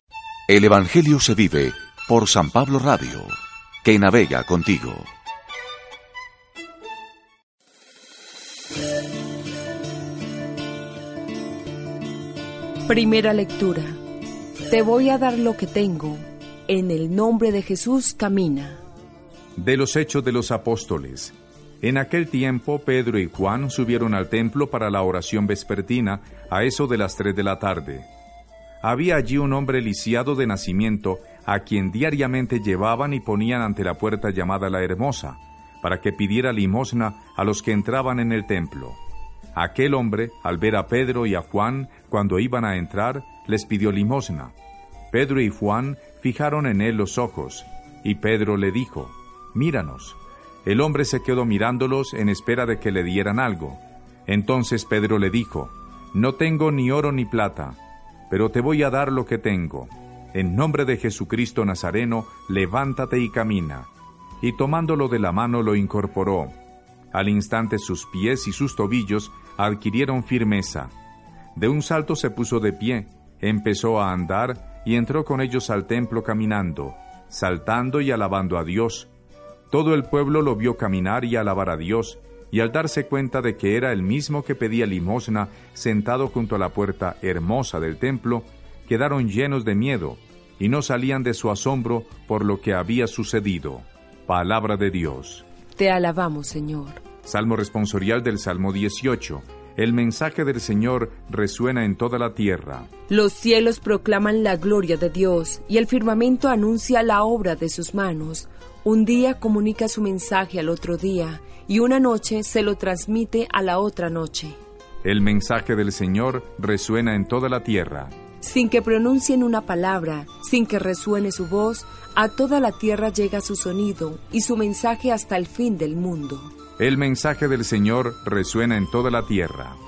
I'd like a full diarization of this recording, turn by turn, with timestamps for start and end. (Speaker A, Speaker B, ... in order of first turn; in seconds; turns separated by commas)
Speaker A: 0.5-3.3, Speaker A: 3.8-5.1, Speaker B: 12.9-14.0, Speaker B: 14.7-18.8, Speaker C: 19.6-28.1, Speaker C: 28.8-39.0, Speaker C: 39.5-44.5, Speaker C: 45.1-57.8, Speaker C: 58.3-63.9, Speaker C: 64.4-66.5, Speaker C: 67.1-70.9, Speaker C: 71.6-79.1, Speaker C: 79.7-95.5, Speaker B: 95.8-97.0, Speaker C: 97.2-102.9, Speaker B: 103.1-114.6, Speaker C: 115.0-118.1, Speaker B: 118.4-126.5, Speaker C: 126.8-129.8